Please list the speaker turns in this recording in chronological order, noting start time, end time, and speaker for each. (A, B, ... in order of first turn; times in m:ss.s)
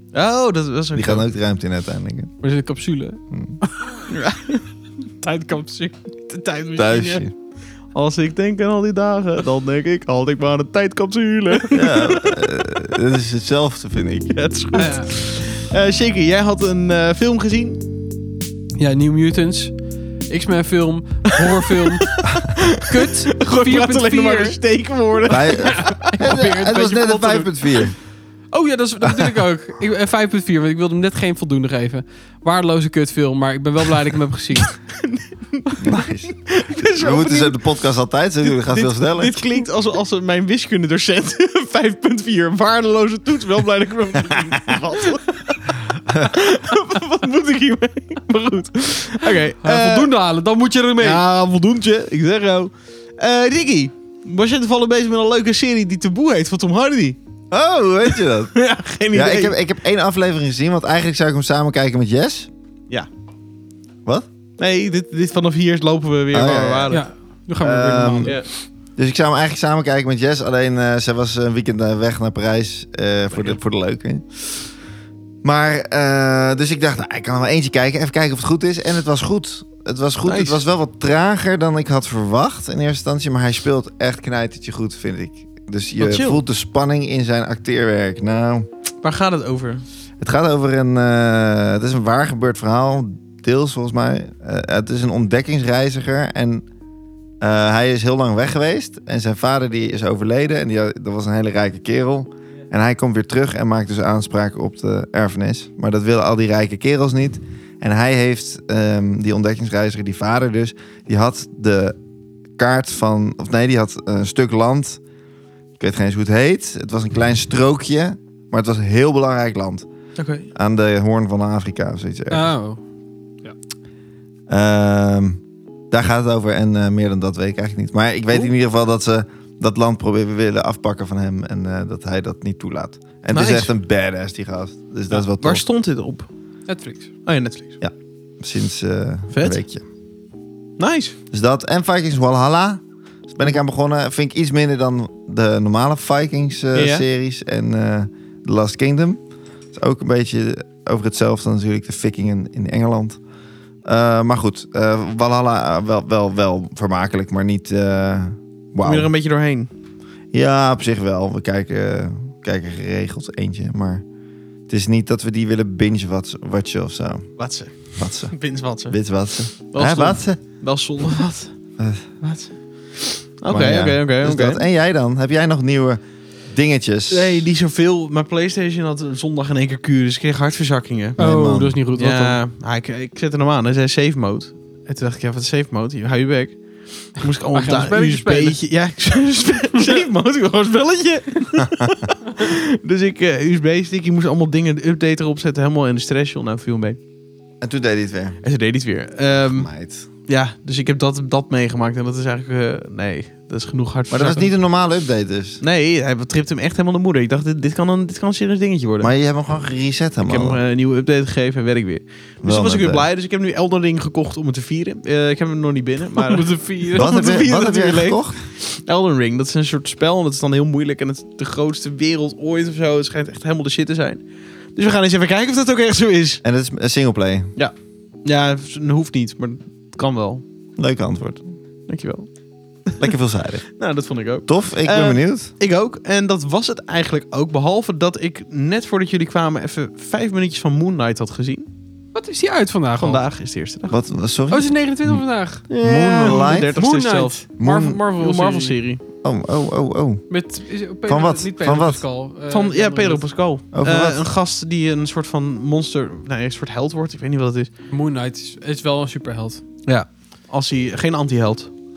0:00.1-0:01.2 A
0:00.9-0:02.3 B
0:02.4-0:04.1 C
0:03.3-0:03.6 B
0:04.1-0:04.6 A
0:05.2-0:06.4 C
0:06.3-0:07.2 A
0:06.7-0:07.3 B
0:07.9-0:12.4 A
0:11.7-0:14.3 B
0:14.3-0:17.8 A
0:14.7-0:15.1 C
0:18.8-0:19.8 C
0:20.3-0:24.6 C
0:21.3-0:26.1 A
0:25.3-0:28.0 B
0:25.6-0:27.8 C
0:28.5-0:34.8 C
0:29.0-0:29.4 B
0:34.8-0:37.6 A
0:35.8-0:36.4 B
0:36.9-0:39.4 B
0:38.4-0:50.1 A
0:49.6-0:51.2 C
0:51.0-0:57.2 A
0:57.5-0:58.5 B
0:58.5-0:59.6 A
0:59.1-1:02.5 B
1:04.6-1:07.0 A
1:06.3-1:06.9 B
1:06.9-1:08.3 C
1:07.6-1:14.6 B
1:15.4-1:28.6 B
1:20.2-1:20.6 A
1:26.0-1:26.4 A
1:29.0-1:29.8 A
1:30.2-1:36.6 B
1:37.4-1:52.0 B
1:52.6-1:55.0 B
1:55.8-1:59.9 B
2:00.2-2:00.5 A
2:00.5-2:02.5 B
2:02.3-2:02.8 C
2:04.5-2:15.6 B
2:13.3-2:13.7 A
2:15.1-2:16.3 A
2:16.7-2:17.1 C
2:17.2-2:17.8 A
2:17.8-2:19.8 B
2:19.3-2:19.6 A
2:20.8-2:21.2 A
2:21.3-2:29.2 B
2:26.7-2:27.0 A
2:29.7-2:33.2 B
2:33.8-2:39.1 B
2:38.8-2:39.7 A
2:40.3-2:44.0 B
2:44.7-2:47.2 B
2:47.4-2:49.0 A
2:48.0-2:48.3 B
2:48.9-2:50.4 B
2:49.7-2:51.5 A
2:51.8-2:52.0 B
2:52.2-2:52.5 A
2:53.4-2:54.6 A
2:53.5-2:57.4 B
2:57.1-3:01.2 A
3:01.2-3:01.8 B
3:01.2-3:02.4 C
3:02.0-3:17.0 A
3:07.5-3:08.6 C
3:11.6-3:11.9 B
3:17.6-3:18.4 B
3:18.4-3:19.7 A
3:19.4-3:20.1 B
3:20.3-3:24.5 A
3:24.1-3:25.6 B
3:25.6-3:29.1 A
3:29.0-3:30.6 B
3:30.2-3:46.4 A
3:32.4-3:33.0 B
3:36.2-3:37.2 C
3:36.9-3:38.4 B
3:46.4-3:47.5 B
3:48.2-3:50.4 A
3:50.8-3:51.4 B
3:51.9-3:52.3 A
3:53.0-3:53.7 B
3:53.8-4:01.7 A
3:54.4-3:55.5 B
4:02.1-4:03.2 C
4:03.0-4:04.0 A
4:03.9-4:05.2 B
4:04.5-4:08.8 C
4:05.7-4:07.5 A
4:05.8-4:06.7 B
4:07.6-4:08.0 B
4:08.2-4:09.0 A
4:09.2-4:10.3 B
4:10.3-4:13.3 C
4:11.0-4:12.0 B
4:12.5-4:17.7 A
4:13.7-4:14.2 B
4:17.9-4:19.6 C
4:19.8-4:21.7 A